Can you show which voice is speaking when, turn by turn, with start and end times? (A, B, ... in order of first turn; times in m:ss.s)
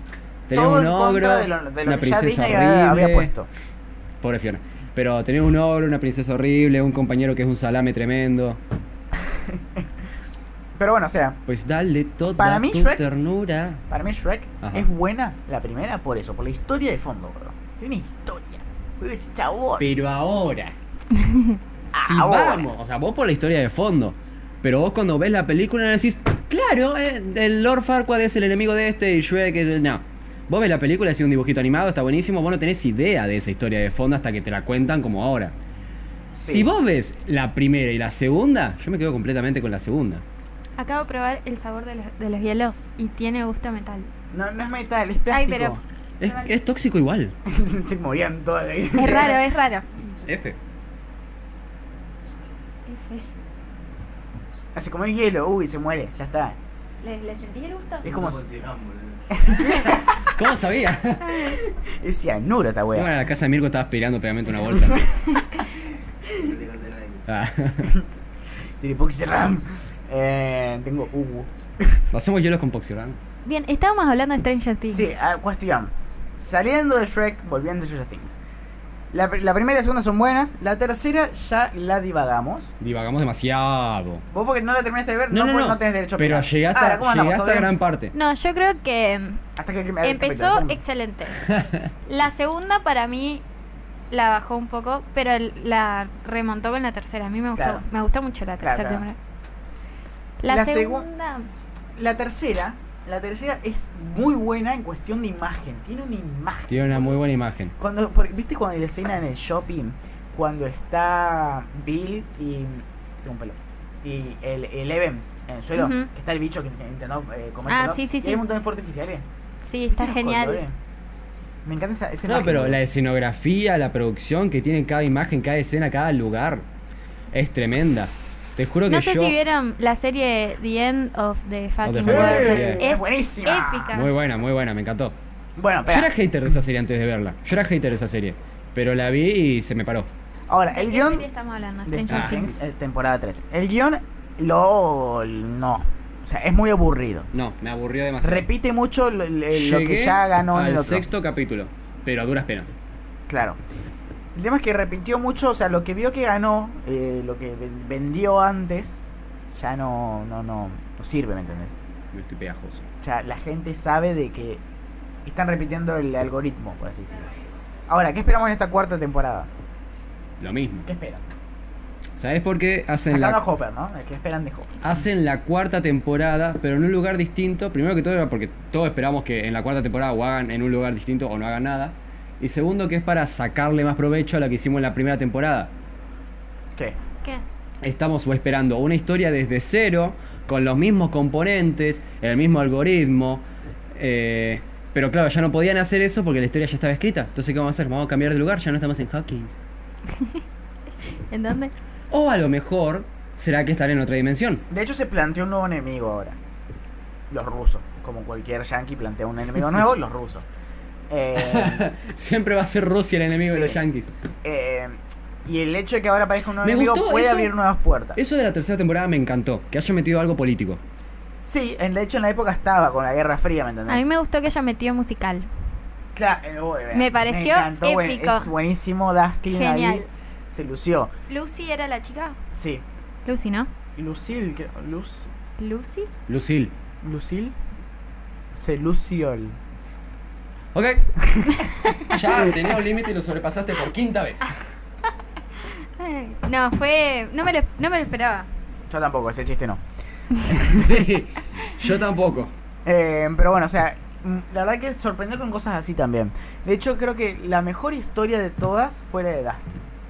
0:00.5-0:03.3 A
0:00.5-0:03.5 B
0:04.2-0:08.6 A
0:09.3-0:09.8 B
0:10.8-0:11.4 B
0:11.5-0:13.8 A
0:12.4-0:13.0 B
0:13.9-0:19.9 B
0:14.6-0:14.9 A
0:19.8-0:20.8 A
0:21.2-0:21.6 C
0:21.9-0:22.7 B
0:21.9-0:35.5 A
0:36.3-0:36.7 B
0:36.5-0:40.2 A
0:40.8-0:44.1 C
0:44.3-0:45.8 B
0:45.3-0:46.5 C
0:46.2-0:47.3 A
0:47.5-0:49.4 B
0:48.9-0:49.8 C
0:50.2-0:50.6 A
0:52.9-0:53.3 C
0:54.8-0:56.6 B
0:57.0-0:58.1 C
0:58.0-0:58.4 B
0:58.0-0:59.8 D
0:59.3-1:00.4 B
1:00.3-1:01.4 A
1:01.3-1:01.5 C
1:01.3-1:03.1 B
1:02.9-1:05.1 A
1:06.3-1:07.3 D
1:07.3-1:07.9 A
1:07.8-1:08.1 B
1:08.8-1:12.0 B
1:12.1-1:13.2 A
1:13.4-1:15.3 C
1:14.9-1:18.4 B
1:19.1-1:22.7 B
1:22.8-1:24.2 A
1:24.3-1:27.7 B
1:25.3-1:28.1 A
1:28.1-1:29.4 C
1:29.6-1:30.8 B
1:30.0-1:31.5 C
1:31.4-1:31.9 A
1:32.1-1:33.4 C
1:34.1-1:39.2 C
1:37.6-1:37.9 B
1:38.6-1:39.0 B
1:40.4-1:41.5 C
1:40.5-1:41.1 B
1:42.0-1:47.2 B
1:46.7-1:47.7 A
1:47.8-1:59.3 B
1:55.8-1:56.1 C
1:57.7-1:58.4 C
1:59.6-2:00.6 C
1:59.9-2:00.8 B
2:01.6-2:02.8 B
2:02.3-2:06.6 A
2:07.3-2:09.3 A
2:08.9-2:14.1 C
2:11.8-2:12.8 A
2:12.0-2:13.9 B
2:13.9-2:15.2 A
2:15.6-2:16.1 B
2:15.9-2:20.1 A
2:20.5-2:21.3 B
2:20.7-2:22.6 C
2:21.8-2:27.3 B
2:22.1-2:22.5 A
2:27.3-2:28.5 A
2:28.2-2:31.0 B
2:29.5-2:32.7 A
2:33.3-2:33.6 B
2:34.4-2:41.8 B
2:42.1-2:42.8 A
2:43.0-2:44.6 B
2:45.2-2:47.3 B
2:47.9-2:49.5 B
2:50.4-2:50.9 A
2:50.8-2:51.2 B
2:52.2-2:53.4 A
2:53.1-2:55.0 B
2:54.8-3:05.7 A
3:07.8-3:19.6 A
3:20.1-3:20.4 C
3:21.1-3:21.7 C
3:22.1-3:24.6 A
3:24.7-3:26.4 B
3:27.3-3:30.4 B
3:31.1-3:31.9 B
3:31.4-3:34.1 A
3:33.4-3:33.8 B
3:34.4-3:38.2 B
3:36.6-3:37.5 A
3:38.2-3:40.8 A
3:41.4-3:44.1 B
3:43.9-3:45.5 C
3:46.2-3:51.1 B
3:46.9-3:48.5 C
3:49.4-3:50.1 C
3:51.3-3:52.4 C
3:52.5-3:52.8 B
3:53.2-3:53.7 C
3:54.0-3:55.3 B
3:55.6-3:56.1 C
3:56.3-3:56.7 A
3:57.0-3:57.6 B
3:58.6-3:59.6 B
4:00.7-4:01.3 A
4:01.2-4:01.7 B
4:01.9-4:04.6 A
4:05.6-4:08.5 C
4:08.9-4:09.8 B
4:10.4-4:11.1 B
4:10.7-4:12.5 A
4:12.8-4:19.8 B